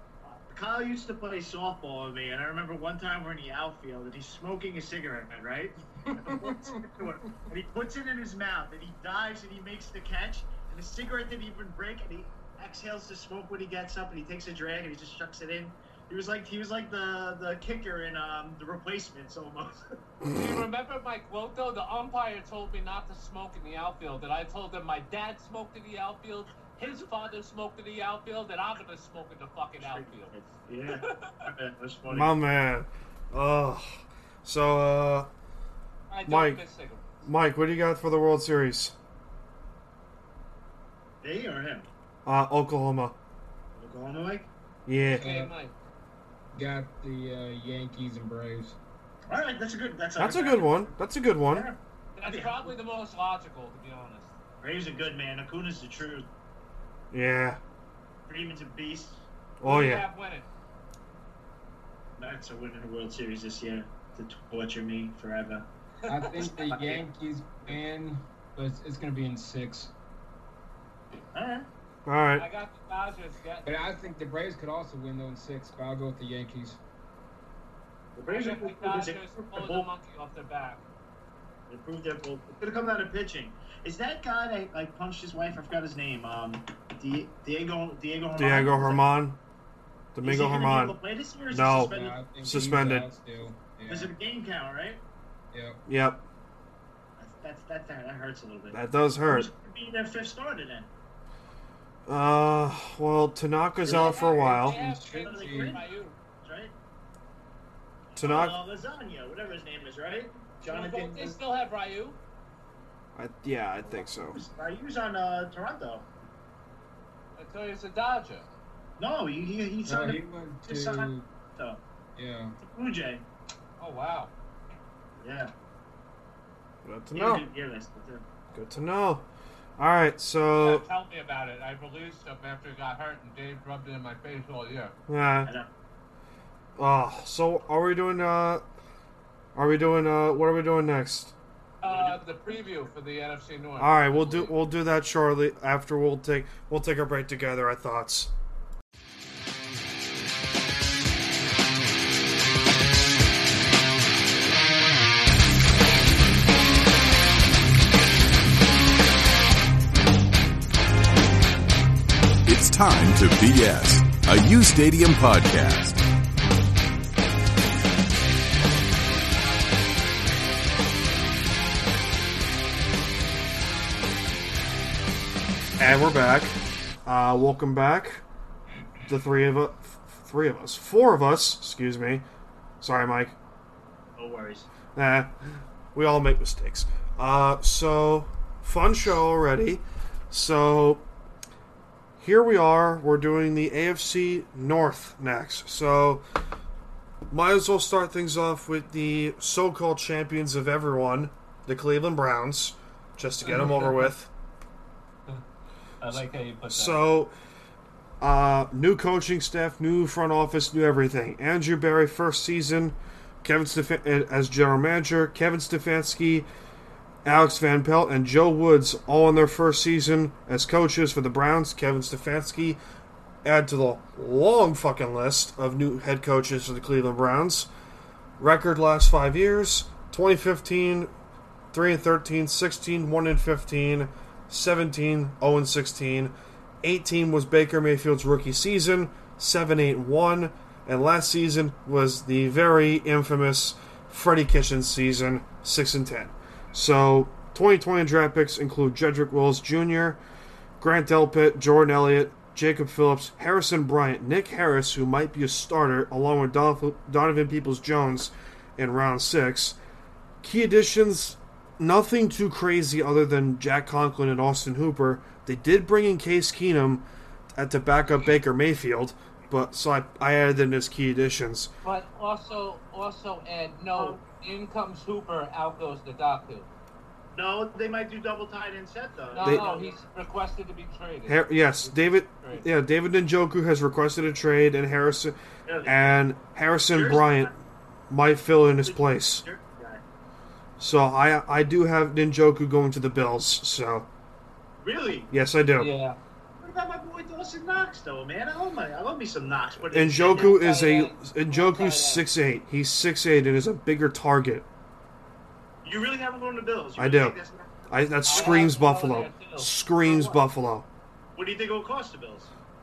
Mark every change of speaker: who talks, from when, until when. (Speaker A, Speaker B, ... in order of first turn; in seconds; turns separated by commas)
Speaker A: 0.2-19.8, Speaker B: 6.0-7.1, Speaker C: 20.3-30.4, Speaker A: 29.8-32.3, Speaker C: 30.9-31.5, Speaker D: 32.1-35.3, Speaker C: 36.1-37.1, Speaker D: 36.3-36.6, Speaker D: 37.2-38.9, Speaker A: 41.2-41.9, Speaker D: 42.2-43.1, Speaker A: 43.7-44.5, Speaker D: 44.9-45.2, Speaker C: 45.0-45.7, Speaker B: 45.1-45.5, Speaker B: 46.5-48.8, Speaker A: 49.3-50.9, Speaker D: 50.2-51.7, Speaker A: 51.5-52.7, Speaker C: 52.1-54.3, Speaker A: 54.6-56.2, Speaker D: 57.1-57.6, Speaker A: 58.3-59.2, Speaker D: 59.6-60.0, Speaker C: 59.6-60.5, Speaker A: 62.2-65.7, Speaker C: 66.0-66.5, Speaker B: 66.1-69.9, Speaker A: 66.4-67.0, Speaker A: 71.3-71.7, Speaker D: 72.0-72.5, Speaker C: 72.3-73.8, Speaker B: 73.6-76.8, Speaker A: 78.2-79.9, Speaker C: 78.3-80.8, Speaker A: 81.7-89.0, Speaker D: 88.4-89.4, Speaker D: 90.1-91.0, Speaker A: 90.2-92.2, Speaker D: 91.5-93.1, Speaker B: 91.9-94.1, Speaker A: 93.9-95.0, Speaker B: 95.5-95.8, Speaker D: 95.9-96.2, Speaker A: 97.2-100.9, Speaker D: 98.7-99.5, Speaker D: 102.1-104.8, Speaker A: 103.9-104.1, Speaker C: 103.9-106.2, Speaker B: 104.0-105.8, Speaker A: 105.2-105.9, Speaker A: 106.4-106.7, Speaker A: 108.1-111.4, Speaker D: 108.2-108.6, Speaker C: 110.7-112.2, Speaker D: 113.2-114.4, Speaker A: 113.8-116.1, Speaker C: 117.3-118.5, Speaker A: 119.0-121.8, Speaker B: 119.8-121.3, Speaker B: 122.2-122.6, Speaker A: 122.6-123.2, Speaker C: 123.8-124.3, Speaker A: 125.2-125.5, Speaker D: 126.8-127.5, Speaker A: 127.1-128.2, Speaker D: 128.5-129.3, Speaker D: 129.8-130.8, Speaker C: 130.6-134.9, Speaker D: 135.1-135.5, Speaker D: 136.8-138.7, Speaker D: 139.5-141.3, Speaker C: 141.8-144.6, Speaker A: 141.8-142.4, Speaker D: 143.8-148.3, Speaker E: 162.4-166.0, Speaker D: 175.8-176.5, Speaker D: 177.1-178.2, Speaker D: 179.1-182.2, Speaker D: 182.8-183.3, Speaker A: 184.2-184.7, Speaker D: 184.9-185.3, Speaker D: 185.9-191.0, Speaker D: 192.2-196.2, Speaker D: 197.3-204.3, Speaker C: 203.4-204.1, Speaker C: 206.0-207.1, Speaker D: 206.7-207.3, Speaker D: 208.2-216.5, Speaker D: 217.2-222.8, Speaker D: 223.4-227.7, Speaker D: 228.4-231.1, Speaker D: 231.7-250.2, Speaker D: 250.8-259.8, Speaker D: 260.4-271.7, Speaker C: 271.8-276.7, Speaker A: 273.9-274.2, Speaker A: 277.3-280.0, Speaker C: 279.3-282.7, Speaker D: 281.3-287.5, Speaker A: 285.6-286.0, Speaker A: 286.9-287.5, Speaker D: 288.1-289.4, Speaker A: 288.8-290.0, Speaker D: 290.8-294.1, Speaker A: 294.8-295.3, Speaker D: 295.3-295.9, Speaker C: 295.8-296.2, Speaker A: 296.6-300.7, Speaker D: 299.9-304.6, Speaker C: 300.2-302.3, Speaker A: 305.8-308.7, Speaker D: 307.0-307.4, Speaker D: 307.9-310.9, Speaker C: 308.3-309.7, Speaker A: 310.0-310.4, Speaker A: 311.4-312.5